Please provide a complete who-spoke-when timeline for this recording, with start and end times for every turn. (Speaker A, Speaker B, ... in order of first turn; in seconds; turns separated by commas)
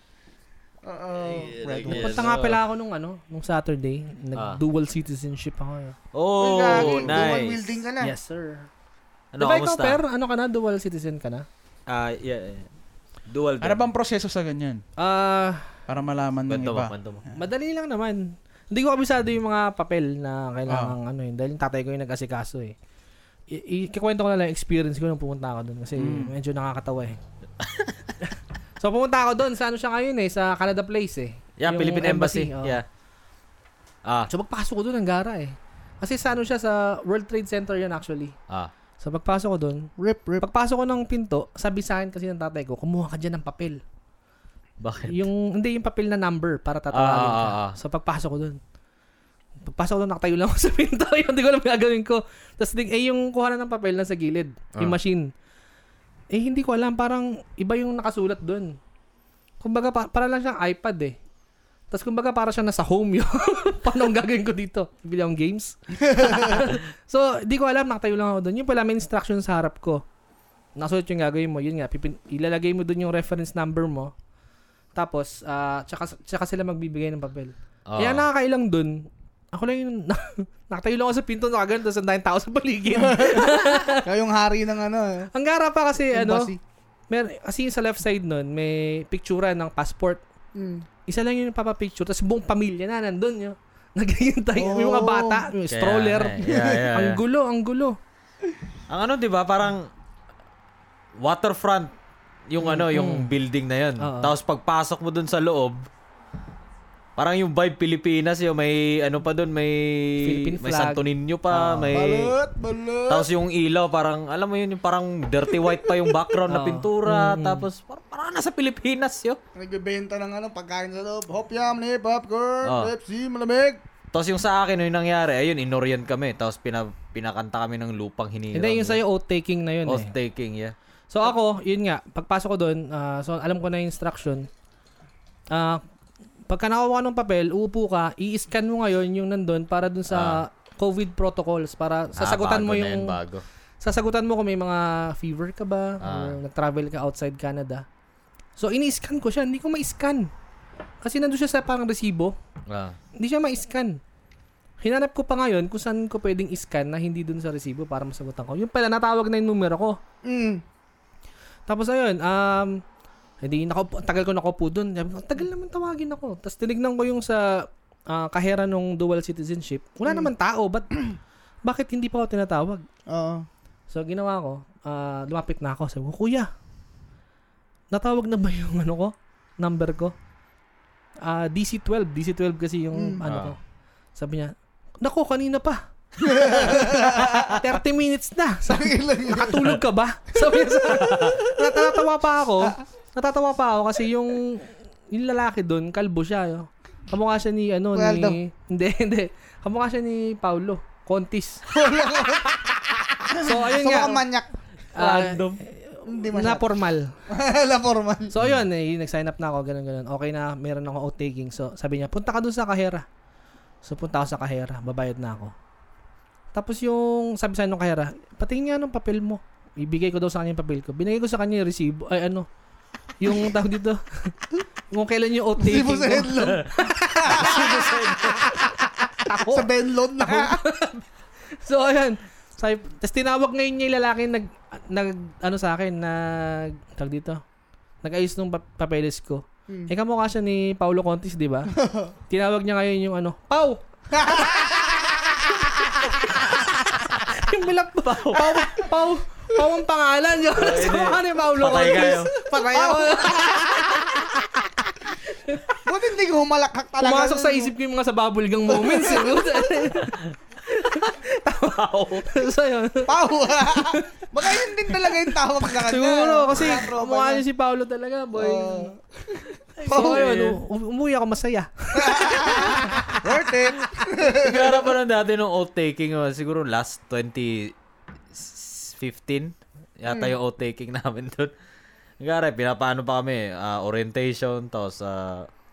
Speaker A: 0.8-2.0, Speaker B: 1.2-2.6, Speaker C: 1.9-6.0, Speaker B: 4.3-4.6, Speaker B: 6.1-7.7, Speaker A: 6.4-8.2, Speaker C: 8.0-8.7, Speaker B: 9.3-10.0, Speaker C: 9.4-11.5, Speaker B: 11.9-12.7, Speaker B: 13.3-13.8, Speaker D: 13.6-14.8, Speaker C: 15.0-15.7, Speaker D: 15.9-16.9, Speaker B: 16.5-17.2, Speaker C: 17.3-22.8, Speaker D: 20.7-21.0, Speaker C: 23.5-27.2, Speaker D: 26.0-26.3, Speaker B: 27.6-27.9, Speaker C: 28.8-32.8, Speaker B: 31.6-32.9, Speaker C: 34.3-38.4, Speaker C: 39.0-39.9, Speaker A: 40.0-40.5, Speaker C: 40.4-43.8, Speaker B: 44.8-45.3, Speaker C: 45.1-48.6, Speaker B: 46.9-47.8, Speaker C: 49.6-55.3, Speaker C: 56.3-58.8, Speaker C: 59.6-61.2, Speaker C: 61.9-70.0, Speaker C: 70.8-74.1, Speaker C: 75.0-84.0, Speaker B: 77.9-78.3, Speaker A: 83.0-85.3, Speaker C: 85.3-86.5, Speaker A: 86.1-86.6, Speaker C: 87.1-90.2, Speaker A: 90.5-90.8, Speaker C: 91.1-98.0, Speaker A: 94.6-95.5, Speaker B: 95.7-97.2, Speaker A: 96.5-96.8, Speaker B: 98.9-99.9, Speaker B: 101.2-101.9, Speaker B: 102.5-105.9, Speaker C: 102.6-103.3, Speaker C: 104.0-104.3, Speaker B: 107.2-112.3, Speaker C: 110.2-111.9, Speaker A: 111.9-113.3, Speaker B: 113.1-119.4, Speaker C: 116.5-117.7, Speaker A: 119.6-123.8, Speaker B: 122.6-122.9, Speaker B: 124.1-129.0, Speaker C: 128.5-130.1, Speaker B: 129.8-130.8, Speaker C: 131.1-134.5, Speaker C: 135.5-135.8, Speaker C: 136.5-143.2, Speaker B: 140.1-140.4, Speaker B: 142.2-143.4, Speaker C: 143.8-147.8, Speaker B: 146.0-146.4, Speaker C: 148.6-150.3, Speaker C: 151.0-152.3, Speaker B: 152.7-153.0, Speaker C: 153.2-154.0, Speaker C: 154.8-160.0, Speaker A: 160.2-160.6, Speaker C: 161.7-162.8, Speaker C: 163.4-170.9, Speaker C: 171.7-172.9, Speaker A: 173.1-173.5, Speaker C: 173.9-176.5, Speaker C: 177.9-180.2, Speaker C: 181.2-183.6, Speaker A: 182.9-183.2, Speaker B: 183.2-183.6, Speaker C: 184.2-185.9, Speaker A: 186.2-187.6, Speaker C: 186.4-201.6, Speaker A: 188.7-189.8, Speaker B: 190.9-191.3, Speaker A: 191.6-191.9, Speaker A: 197.9-198.4, Speaker A: 201.7-204.5, Speaker C: 203.3-204.2, Speaker C: 204.9-207.1, Speaker B: 205.0-205.6, Speaker A: 206.1-206.7, Speaker A: 207.3-208.3, Speaker C: 208.3-213.1, Speaker C: 213.8-215.5, Speaker C: 216.5-222.5, Speaker C: 223.2-224.4, Speaker C: 224.9-227.7, Speaker A: 225.6-226.7, Speaker A: 227.2-230.6, Speaker B: 227.3-228.6, Speaker C: 229.2-229.7, Speaker C: 230.2-231.0, Speaker C: 231.6-237.4, Speaker C: 238.0-241.7, Speaker A: 241.8-242.1, Speaker C: 242.3-243.8, Speaker A: 244.1-245.9, Speaker C: 244.3-244.6, Speaker C: 246.3-254.6, Speaker B: 248.1-248.7, Speaker B: 250.6-252.3, Speaker A: 252.5-254.3, Speaker C: 255.3-255.8, Speaker A: 255.8-257.7, Speaker C: 257.0-263.1, Speaker A: 258.7-259.6, Speaker B: 260.0-260.3, Speaker B: 261.6-262.5, Speaker A: 263.1-267.4, Speaker C: 263.7-268.9, Speaker A: 268.4-269.0, Speaker C: 269.8-273.2, Speaker B: 269.8-270.6, Speaker A: 269.9-270.3, Speaker A: 271.9-274.9, Speaker B: 274.3-277.7, Speaker B: 278.3-281.5, Speaker A: 280.1-280.3, Speaker B: 282.2-285.5